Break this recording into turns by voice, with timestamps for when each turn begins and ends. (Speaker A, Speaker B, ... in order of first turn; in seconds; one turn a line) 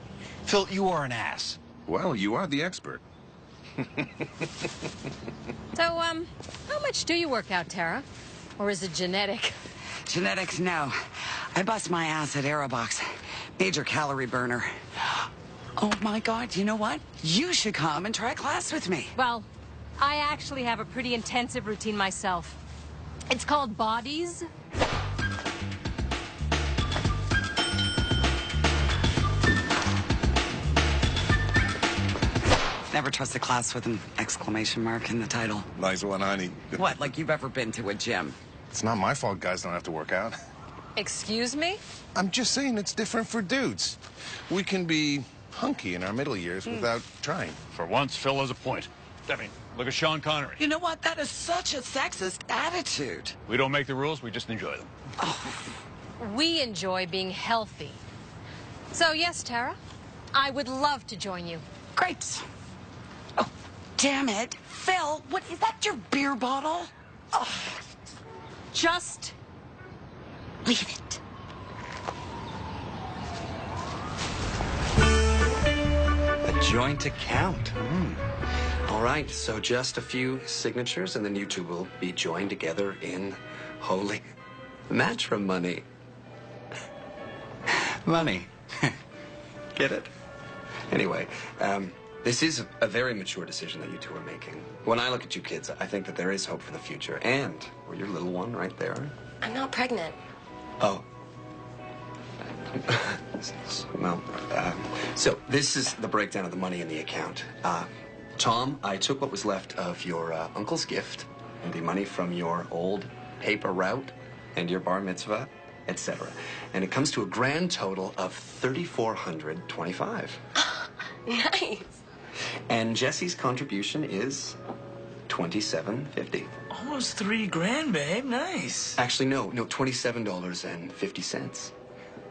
Speaker A: 0.5-1.6
Speaker B: 1.9-3.0
Speaker C: 5.7-8.1
Speaker C: 8.6-9.5
Speaker D: 10.1-19.1
Speaker C: 19.1-22.6
Speaker C: 23.3-24.5
Speaker D: 32.9-35.7
Speaker B: 35.8-37.0
Speaker D: 36.7-38.4
Speaker B: 38.7-40.3
Speaker C: 41.0-41.8
Speaker B: 42.1-44.0
Speaker B: 44.5-47.6
Speaker D: 46.6-47.0
Speaker A: 47.7-50.6
Speaker D: 50.6-53.3
Speaker A: 53.5-54.7
Speaker D: 55.2-55.7
Speaker C: 56.2-58.0
Speaker C: 58.9-59.8
Speaker C: 60.3-61.6
Speaker D: 62.0-62.4
Speaker D: 63.4-67.4
Speaker C: 68.7-69.3
Speaker D: 70.7-71.0
Speaker E: 76.4-77.7
Speaker B: 77.5-78.1
Speaker E: 78.8-84.2
Speaker E: 84.9-85.8
Speaker D: 88.0-88.5
Speaker E: 89.7-90.1
Speaker E: 90.9-99.1
Speaker F: 99.4-100.2
Speaker E: 100.8-101.1
Speaker E: 102.8-120.4
Speaker F: 120.7-122.0
Speaker E: 122.7-124.6
Speaker E: 125.3-126.5
Speaker G: 126.7-129.0
Speaker E: 129.0-131.7